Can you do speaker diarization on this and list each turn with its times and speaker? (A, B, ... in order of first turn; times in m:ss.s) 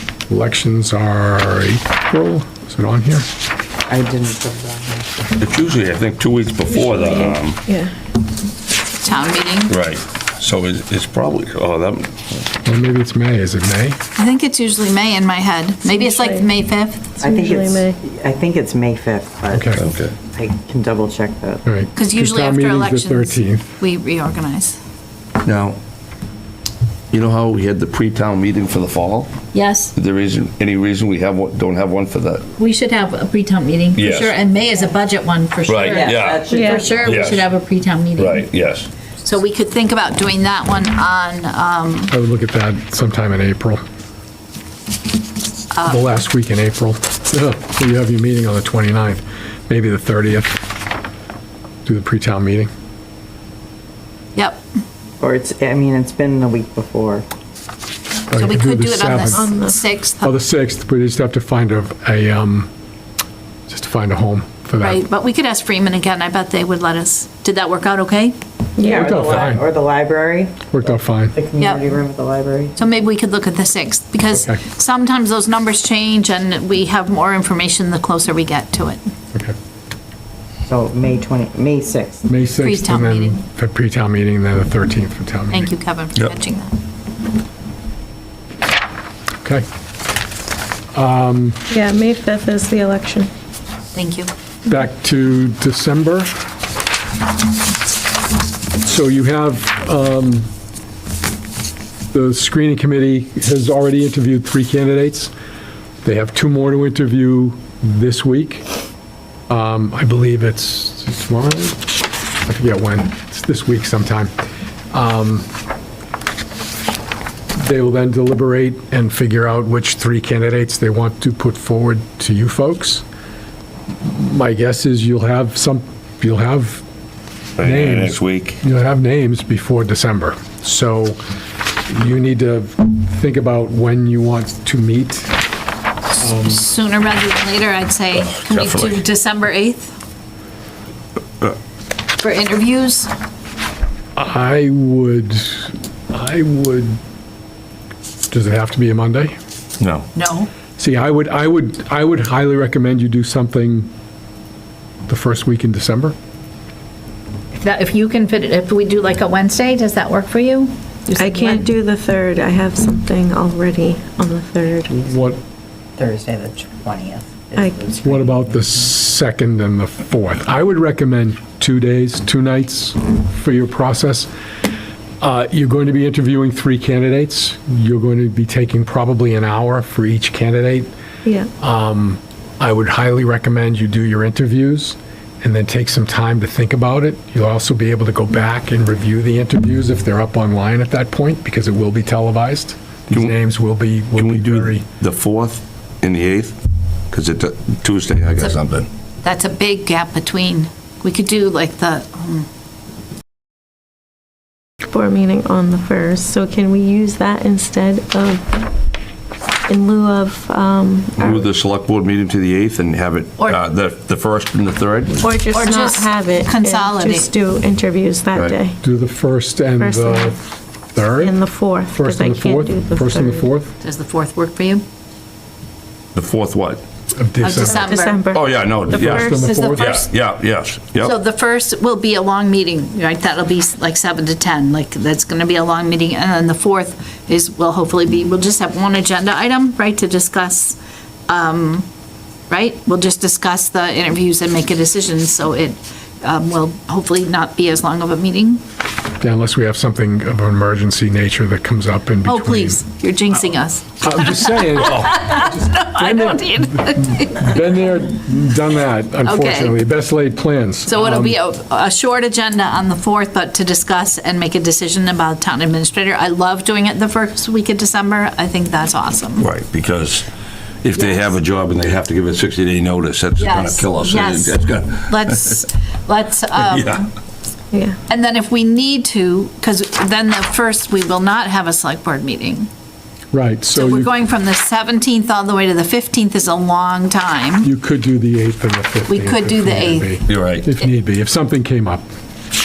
0:00.3-0:03.2 A
0:03.9-0:05.1 B
0:05.4-0:07.6 C
0:06.7-0:07.9 D
0:09.0-0:09.7 E
0:09.7-0:12.5 C
0:12.6-0:14.0 A
0:14.2-0:17.1 E
0:15.9-0:16.4 D
0:17.2-0:18.0 D
0:17.2-0:21.6 B
0:19.5-0:19.8 A
0:19.8-0:20.1 C
0:21.6-0:23.7 A
0:21.9-0:24.8 E
0:25.4-0:25.8 C
0:27.1-0:29.3 C
0:29.5-0:29.9 E
0:29.9-0:32.4 C
0:32.6-0:38.5 E
0:33.9-0:34.4 C
0:35.7-0:37.4 C
0:35.8-0:37.4 B
0:36.5-0:36.9 D
0:38.2-0:38.9 C
0:39.2-0:42.1 E
0:42.1-0:43.8 A
0:45.7-0:46.0 E
0:45.8-0:50.6 A
0:51.8-0:52.7 A
0:54.4-0:54.6 E
0:55.2-0:57.2 B
0:58.3-0:59.5 A
0:58.3-1:00.3 E
0:59.3-0:59.8 D
1:00.2-1:02.7 A
1:03.7-1:05.0 A
1:04.8-1:08.4 E
1:08.8-1:09.1 D
1:08.8-1:10.7 B
1:08.9-1:09.6 A
1:10.7-1:11.4 A
1:11.3-1:12.8 B
1:11.6-1:11.9 E
1:12.8-1:19.0 E
1:20.6-1:22.2 B
1:22.2-1:25.7 A
1:22.6-1:23.4 E
1:25.5-1:26.7 E
1:30.9-1:31.6 A
1:31.7-1:33.3 D
1:33.9-1:34.3 E
1:34.6-1:36.3 A
1:38.8-1:40.5 A
1:42.1-1:45.3 A
1:46.0-1:48.7 A
1:49.5-1:51.8 A
1:52.4-1:54.3 A
1:54.9-1:55.5 A
1:57.6-2:03.0 A
2:04.0-2:06.8 A
2:07.6-2:08.6 C
2:07.6-2:11.2 A
2:11.9-2:15.4 A
2:16.2-2:16.6 A
2:16.2-2:19.9 E
2:18.1-2:19.0 C
2:22.2-2:23.1 E
2:24.2-2:27.0 A
2:28.3-2:29.3 A
2:29.8-2:30.0 C
2:30.1-2:30.5 E
2:30.8-2:33.9 A
2:35.1-2:36.1 A
2:37.6-2:41.6 E
2:41.2-2:45.0 D
2:44.9-2:45.2 B
2:45.0-2:45.4 A
2:46.0-2:48.7 B
2:47.6-2:47.9 D
2:48.0-2:54.3 A
2:55.2-3:00.9 A
3:01.6-3:14.8 A
3:14.2-3:16.6 C
3:17.1-3:18.9 C
3:19.2-3:22.5 E
3:24.9-3:28.6 D
3:29.7-3:31.5 D
3:31.2-3:35.3 C
3:35.2-3:38.8 D
3:35.5-3:37.3 E
3:38.8-3:40.4 A
3:39.8-3:40.4 D
3:40.9-3:43.7 A
3:41.2-3:43.5 D
3:43.8-3:44.8 E
3:46.1-3:46.8 C
3:47.1-3:47.8 A
3:47.4-3:48.2 E
3:47.6-3:49.7 D
3:48.3-3:51.1 C
3:48.9-3:49.9 A
3:49.3-3:50.1 E
3:51.0-4:00.8 E
4:01.3-4:01.8 E
4:02.5-4:08.6 E
4:09.2-4:12.8 A
4:12.2-4:17.9 E
4:14.0-4:21.4 A
4:14.8-4:15.1 C
4:19.2-4:19.8 E
4:20.9-4:29.5 E
4:29.4-4:30.3 C
4:30.8-4:35.6 C
4:30.9-4:31.4 E
4:33.4-4:37.1 E
4:36.6-4:37.0 C
4:38.1-4:42.7 E
4:43.3-4:44.1 A
4:43.7-4:47.7 E
4:47.6-4:52.0 A
4:49.1-4:50.2 E
4:50.3-4:50.7 C